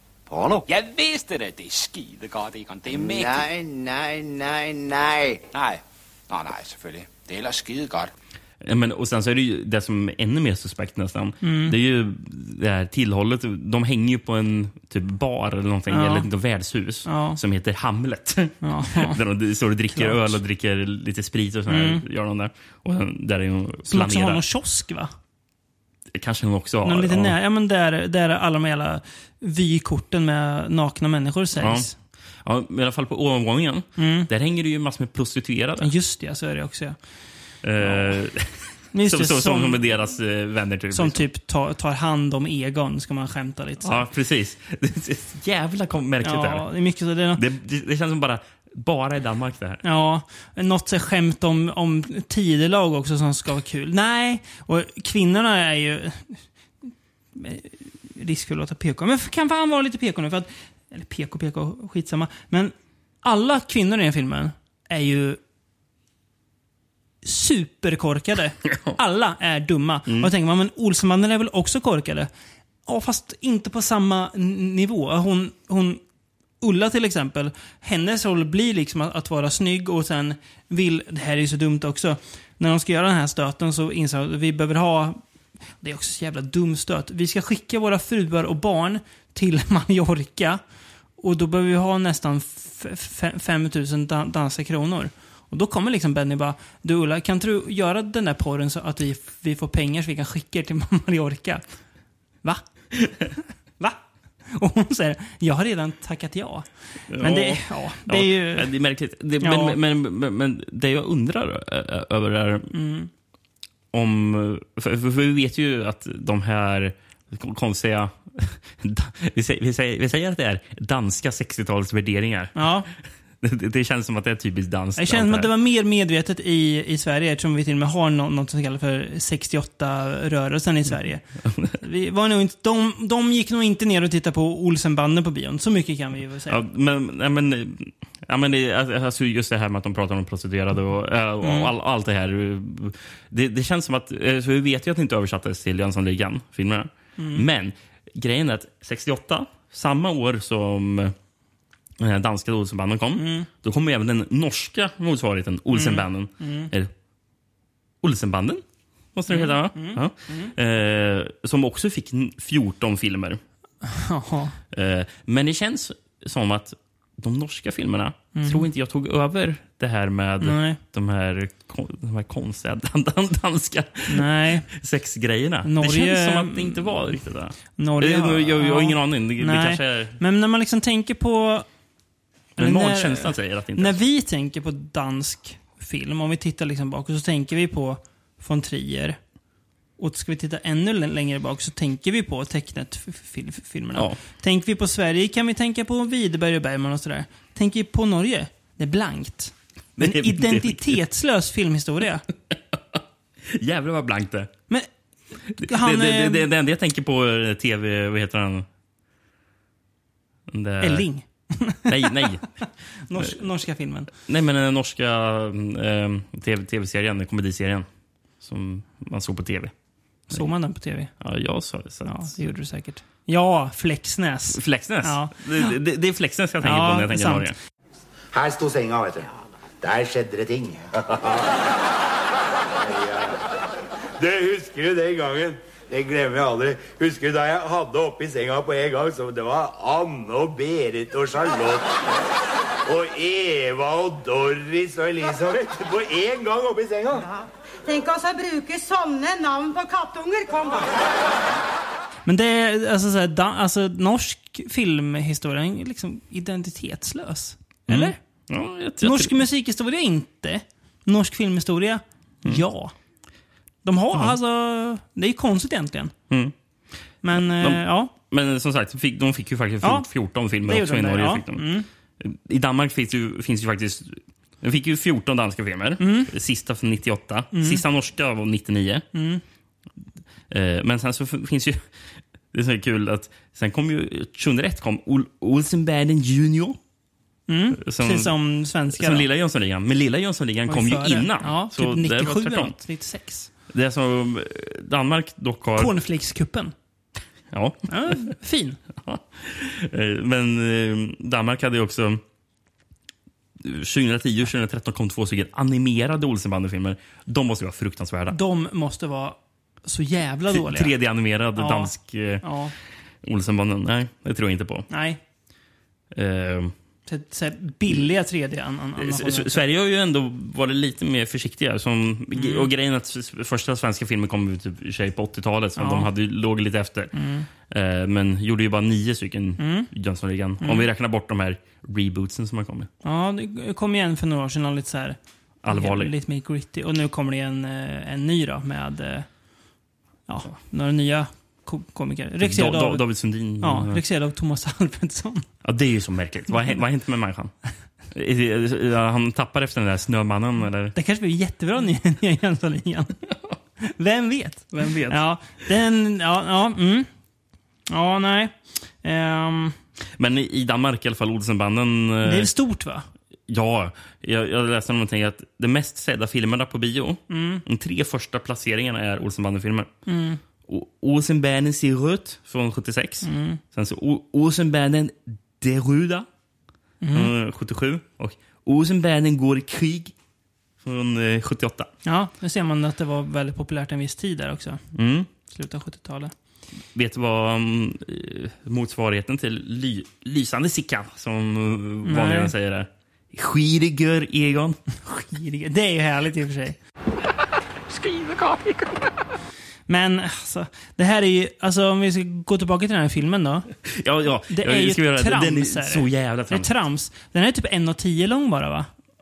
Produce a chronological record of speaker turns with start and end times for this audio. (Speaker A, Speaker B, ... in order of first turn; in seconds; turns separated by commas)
Speaker A: 0.3-0.7, Speaker B: 0.7-3.5, Speaker A: 2.9-5.4, Speaker B: 5.5-8.1, Speaker C: 8.6-24.4, Speaker D: 11.4-11.8, Speaker D: 15.9-16.3, Speaker D: 17.1-17.4, Speaker D: 18.6-19.2, Speaker D: 19.9-20.4, Speaker D: 21.7-22.0, Speaker D: 23.9-25.1, Speaker C: 26.1-27.4, Speaker D: 26.8-31.9, Speaker C: 31.6-31.9, Speaker C: 32.4-35.9, Speaker D: 34.0-34.3, Speaker D: 35.8-37.0, Speaker C: 37.6-38.5, Speaker D: 37.8-38.1, Speaker D: 38.9-39.8, Speaker C: 39.0-41.2, Speaker D: 40.9-44.1, Speaker C: 43.8-46.7, Speaker D: 46.2-47.4, Speaker C: 47.4-49.8, Speaker D: 49.8-56.4, Speaker D: 57.4-65.4, Speaker D: 67.2-72.3, Speaker C: 68.7-69.0, Speaker D: 72.9-76.0, Speaker D: 76.6-85.2, Speaker D: 85.8-90.6, Speaker D: 91.2-101.6, Speaker D: 103.8-108.7, Speaker C: 107.1-112.7, Speaker D: 109.4-109.8, Speaker D: 112.7-113.1, Speaker C: 113.9-122.7, Speaker D: 122.5-122.9, Speaker C: 123.4-125.5, Speaker D: 125.0-131.3, Speaker D: 131.8-136.6, Speaker C: 136.5-151.1, Speaker D: 141.4-141.7, Speaker D: 147.2-147.4, Speaker C: 152.0-156.9, Speaker D: 153.2-153.5, Speaker D: 155.7-156.7, Speaker C: 158.0-158.6, Speaker C: 159.2-163.4, Speaker D: 159.3-160.5, Speaker D: 163.8-164.6, Speaker C: 164.7-180.2, Speaker D: 168.3-168.7, Speaker D: 170.4-170.8, Speaker D: 174.1-174.7, Speaker D: 175.6-177.2, Speaker D: 177.8-181.7, Speaker C: 182.6-184.0, Speaker D: 182.6-189.2, Speaker D: 190.0-202.3, Speaker C: 200.0-201.0, Speaker C: 202.5-204.5, Speaker C: 205.6-208.7, Speaker D: 205.6-206.5, Speaker C: 210.5-211.1, Speaker D: 210.8-212.3, Speaker C: 211.9-212.5, Speaker D: 213.1-214.1, Speaker C: 214.2-217.9, Speaker C: 218.4-219.7, Speaker D: 220.3-221.1, Speaker C: 221.2-222.3, Speaker D: 222.1-225.8, Speaker C: 224.5-227.6, Speaker D: 226.6-227.5, Speaker E: 228.3-231.8, Speaker E: 232.7-233.6, Speaker E: 234.2-242.1, Speaker E: 242.9-247.2, Speaker F: 247.2-251.0, Speaker D: 252.3-258.2, Speaker C: 257.9-259.4, Speaker D: 259.0-262.9, Speaker D: 263.8-266.1, Speaker C: 266.3-266.6, Speaker D: 267.2-268.1, Speaker C: 267.4-271.7, Speaker D: 269.8-270.1, Speaker D: 270.6-271.9, Speaker C: 272.2-279.1, Speaker D: 276.0-276.3, Speaker D: 277.5-277.8, Speaker D: 279.1-279.4, Speaker C: 280.5-281.8, Speaker C: 282.5-286.8, Speaker D: 287.5-289.3, Speaker C: 287.8-288.4, Speaker C: 288.9-292.8, Speaker D: 290.7-293.5, Speaker C: 293.7-295.9, Speaker D: 295.8-296.7, Speaker C: 297.5-298.3, Speaker D: 297.9-298.8, Speaker C: 299.0-302.2, Speaker C: 303.6-308.4, Speaker D: 308.3-310.9, Speaker C: 310.5-312.4, Speaker D: 311.6-311.9, Speaker D: 312.4-312.7, Speaker C: 313.2-314.9, Speaker D: 314.9-315.2, Speaker C: 316.1-316.7, Speaker D: 317.1-319.6, Speaker C: 319.0-327.1, Speaker D: 322.4-322.7, Speaker D: 325.8-326.1, Speaker D: 327.1-327.5, Speaker C: 327.7-332.9, Speaker D: 329.6-329.9, Speaker D: 330.6-330.9, Speaker D: 333.0-335.2, Speaker C: 335.6-336.1, Speaker D: 335.7-339.3, Speaker D: 340.3-343.1, Speaker C: 342.4-344.0, Speaker D: 343.6-345.5, Speaker C: 345.6-347.5, Speaker C: 348.1-350.9, Speaker D: 350.9-353.2, Speaker D: 353.8-357.1, Speaker C: 354.7-355.2, Speaker D: 357.9-359.8, Speaker C: 360.2-362.5, Speaker D: 362.2-363.1, Speaker C: 363.5-369.9, Speaker D: 367.3-367.6, Speaker D: 370.1-370.4, Speaker C: 370.7-376.3, Speaker D: 373.2-373.6, Speaker D: 377.0-377.3, Speaker C: 377.1-380.1, Speaker C: 380.8-381.9, Speaker D: 382.1-384.8, Speaker C: 384.9-385.3, Speaker D: 385.5-386.3, Speaker C: 386.9-394.8, Speaker D: 392.1-392.5, Speaker D: 395.1-396.8, Speaker B: 397.9-399.1, Speaker D: 399.9-403.7, Speaker C: 403.9-406.7, Speaker D: 404.5-408.9